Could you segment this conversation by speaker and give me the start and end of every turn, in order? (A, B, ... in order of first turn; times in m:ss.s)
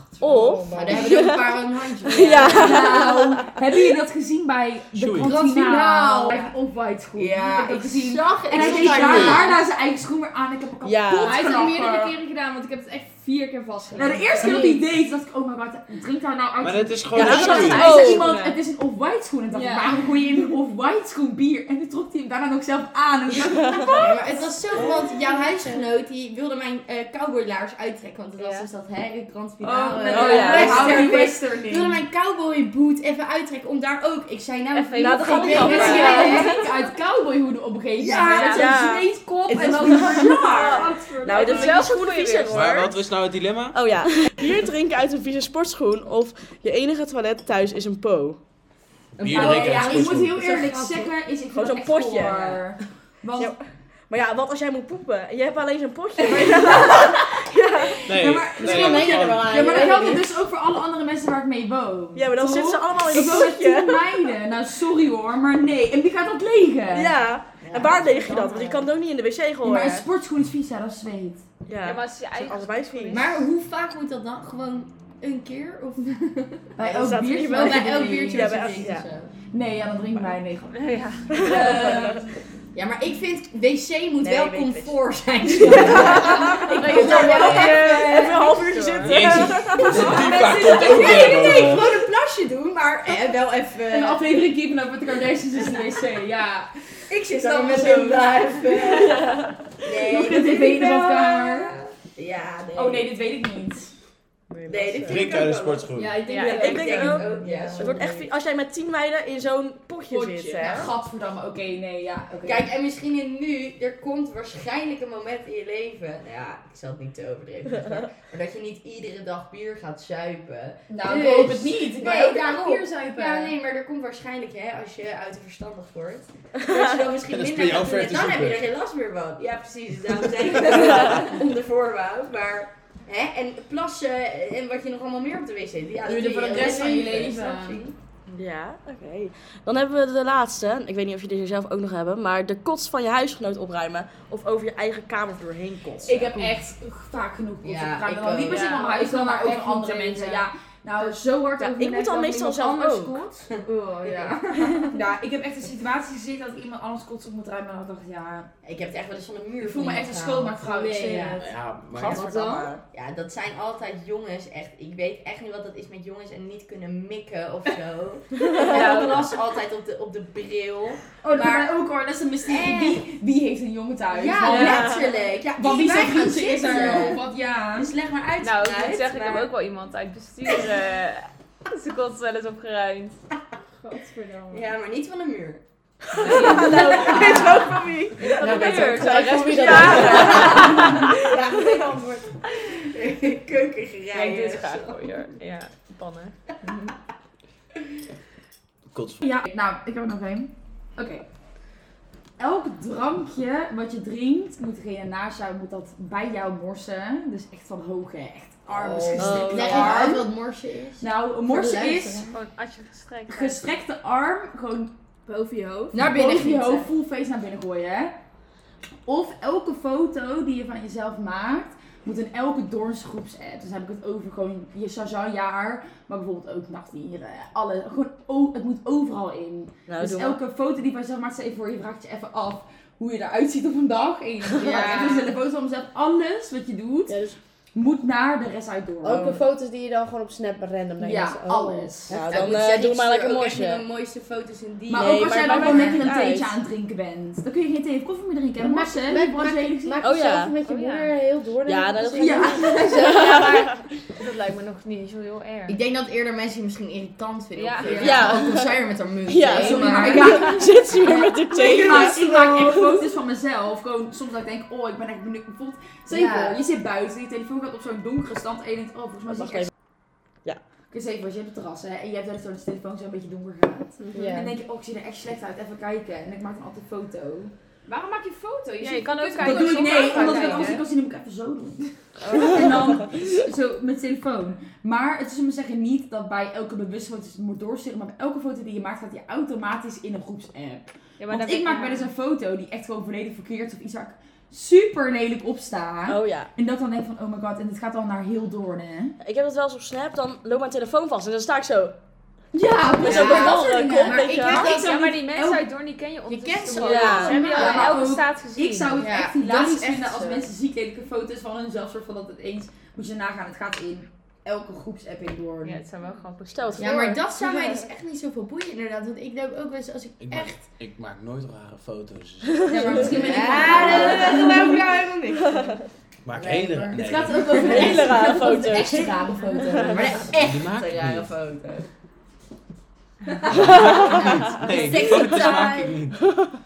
0:00.2-0:03.5 A
0:00.2-0:01.3 B
0:00.7-0:03.1 C
0:02.4-0:12.2 D
0:04.9-0:05.4 E
0:05.2-0:06.5 C
0:07.1-0:09.6 C
0:08.6-0:09.5 F
0:10.8-0:11.4 A
0:11.1-0:14.6 F
0:13.9-0:24.5 D
0:14.3-0:14.8 B
0:16.6-0:18.0 E
0:17.1-0:18.3 A
0:17.2-0:18.6 G
0:19.5-0:20.0 F
0:23.9-0:36.6 C
0:25.5-0:25.8 B
0:28.4-0:28.7 G
0:29.6-0:32.0 D
0:30.1-0:31.1 A
0:30.3-0:31.2 F
0:34.7-0:36.4 G
0:35.0-0:36.6 A
0:35.4-0:41.0 D
0:35.5-0:36.6 F
0:38.0-0:38.5 C
0:38.2-0:38.7 F
0:38.4-0:43.0 A
0:39.5-0:40.0 C
0:39.8-0:41.8 F
0:41.3-0:42.6 G
0:42.5-0:43.9 E
0:43.7-0:48.4 A
0:49.2-0:50.6 E
0:49.2-0:50.2 C
0:49.2-0:53.6 D
0:51.5-0:52.6 A
0:53.4-0:58.0 A
0:56.2-1:07.2 D
0:58.0-0:59.8 E
0:58.6-1:00.4 B
1:02.1-1:04.4 A
1:06.9-1:10.1 A
1:07.6-1:08.7 C
1:09.6-1:11.4 D
1:11.7-1:13.3 A
1:11.8-1:13.3 G
1:13.1-1:16.9 C
1:16.8-1:18.9 D
1:16.8-1:19.1 A
1:17.5-1:19.4 C
1:19.5-1:22.2 D
1:20.7-1:21.4 G
1:21.3-1:22.2 A
1:21.4-1:21.8 F
1:21.5-1:22.0 C
1:22.7-1:27.7 C
1:24.2-1:25.0 A
1:25.5-1:30.1 A
1:25.6-1:28.1 D
1:26.6-1:29.5 G
1:29.0-1:32.0 E
1:29.7-1:31.9 D
1:30.4-1:34.5 C
1:33.9-1:36.7 D
1:37.1-1:43.1 C
1:39.1-1:39.5 A
1:39.9-1:41.8 D
1:42.7-1:43.9 D
1:44.5-1:45.3 A
1:44.7-1:48.0 C
1:45.0-1:46.2 E
1:45.9-1:48.0 F
1:46.2-1:46.7 G
1:46.4-1:50.9 A
1:47.4-1:48.0 D
1:50.1-1:50.7 F
1:50.4-1:52.6 D
1:52.4-2:17.9 C
2:00.9-2:03.5 D
2:01.0-2:01.7 F
2:06.6-2:06.9 A
2:07.2-2:08.7 E
2:16.1-2:17.8 F
2:16.1-2:17.6 D
2:18.3-2:26.5 A
2:26.0-2:32.3 D
2:27.6-2:29.0 C
2:28.5-2:30.4 F
2:31.0-2:35.0 F
2:31.6-2:33.2 A
2:34.3-2:38.5 D
2:38.6-2:41.3 C
2:39.6-2:41.4 D
2:40.6-2:41.5 F
2:41.4-2:42.3 E
2:41.9-2:42.8 A
2:42.1-2:42.7 F
2:42.9-2:51.7 C
2:48.5-2:49.4 G
2:51.2-2:55.0 D
2:52.5-2:53.0 C
2:54.1-2:59.5 C
2:54.5-2:55.1 A
2:54.5-2:54.8 F
2:55.5-2:57.9 D
2:56.8-2:57.4 F
2:58.4-3:03.2 G
3:03.8-3:04.7 F
3:04.5-3:05.6 C
3:06.1-3:11.1 A
3:06.2-3:07.2 G
3:06.4-3:07.4 F
3:06.8-3:07.4 C
3:08.2-3:11.1 G
3:08.3-3:10.7 B
3:11.3-3:12.2 C
3:12.7-3:15.1 C
3:14.1-3:16.4 G
3:18.9-3:19.2 E
3:19.2-3:21.2 D
3:22.4-3:30.4 D
3:28.7-3:29.6 B
3:29.2-3:30.1 A
3:29.4-3:31.1 C
3:31.0-3:32.3 D
3:31.4-3:32.4 B
3:32.3-3:33.6 G
3:33.3-3:34.9 D
3:35.2-3:36.1 F
3:35.9-3:36.9 C
3:36.0-3:38.2 D
3:39.1-3:57.2 D
3:49.9-3:50.4 A
3:54.6-3:55.4 C
3:57.1-3:57.4 B
3:57.7-3:59.4 D
3:59.0-4:02.2 B
4:01.0-4:02.2 D
4:02.1-4:03.9 A
4:02.2-4:06.0 C
4:04.9-4:10.0 D
4:04.9-4:06.5 A
4:08.6-4:12.9 B
4:10.0-4:10.5 A
4:10.6-4:11.2 G
4:11.6-4:13.9 A
4:12.2-4:13.4 D
4:12.8-4:15.8 G
4:15.7-4:20.6 C
4:17.5-4:18.2 G
4:17.8-4:18.3 F
4:18.0-4:23.0 A
4:19.5-4:29.7 D
4:26.1-4:26.6 C
4:26.1-4:26.5 F
4:29.4-4:29.7 A
4:30.9-4:37.5 D
4:34.1-4:34.6 B
4:37.8-4:40.9 F
4:38.8-4:40.9 G
4:39.4-4:59.2 D
4:42.2-4:42.8 A
4:51.2-4:52.1 G
4:56.1-4:56.5 A
4:59.2-5:02.0 A
5:02.5-5:05.6 D
5:03.0-5:04.7 A
5:03.0-5:05.1 C
5:04.6-5:09.0 G
5:06.2-5:08.0 C
5:06.8-5:07.6 A
5:07.2-5:15.8 D
5:09.0-5:10.5 C
5:15.6-5:17.0 G
5:16.5-5:17.8 A
5:16.8-5:20.6 C
5:20.2-5:23.2 E
5:22.7-5:24.6 A
5:22.7-5:24.7 D
5:23.0-5:25.7 C
5:23.5-5:24.4 F
5:26.2-5:27.9 E
5:26.3-5:28.0 C
5:26.9-5:30.1 D
5:27.4-5:30.1 F
5:27.6-5:30.0 A
5:29.8-5:31.9 C
5:30.4-5:31.3 E
5:33.5-5:36.4 E
5:33.6-5:35.9 C
5:33.7-5:34.2 A
5:35.2-5:35.5 A
5:35.4-5:35.9 F
5:36.2-5:36.5 A